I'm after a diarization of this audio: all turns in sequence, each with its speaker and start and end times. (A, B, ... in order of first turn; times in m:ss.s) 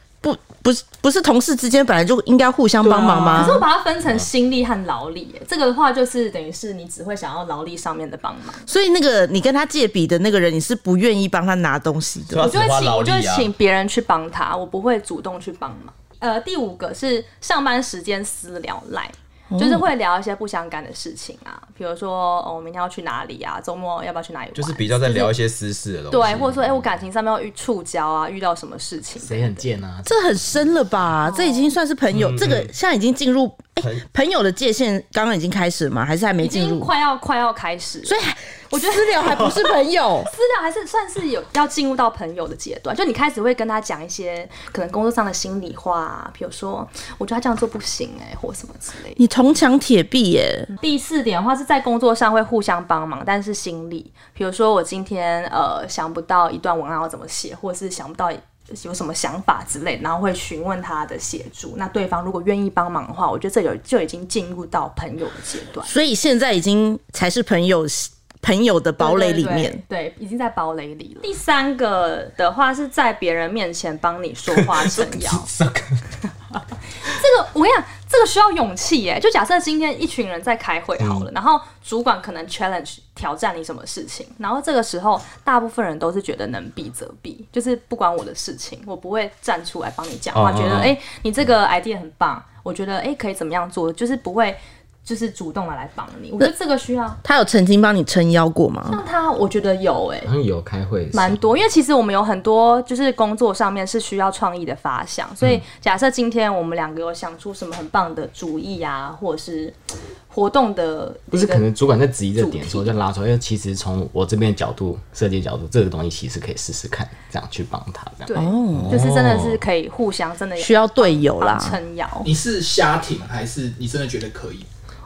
0:00.2-0:03.6 A
0:02.8-0:03.6 B
0:03.3-0:08.6 C
0:08.7-0:12.5 A
0:12.3-0:13.5 D
0:12.4-0:25.3 C
0:19.5-0:19.8 A
0:24.5-0:26.9 D
0:26.1-0:29.6 C
0:29.2-0:30.4 B
0:30.0-0:36.9 A
0:31.2-0:31.7 C
0:32.1-0:32.7 D
0:36.4-0:38.2 C
0:38.0-0:40.3 A
0:38.7-0:39.6 C
0:40.2-0:49.2 C
0:49.2-0:50.7 A
0:50.7-1:05.9 C
1:05.8-1:09.8 A
1:09.0-1:15.5 C
1:14.5-1:16.0 D
1:17.0-1:37.2 C
1:30.3-1:30.9 D
1:37.2-1:39.0 A
1:38.9-1:40.3 C
1:40.2-1:41.4 B
1:41.1-1:49.8 C
1:50.3-1:51.7 C
1:51.3-1:58.3 B
1:52.4-1:52.9 C
1:58.2-2:02.3 C
1:58.3-1:59.0 A
1:58.8-1:59.6 D
2:00.6-2:01.8 A
2:02.2-2:04.7 E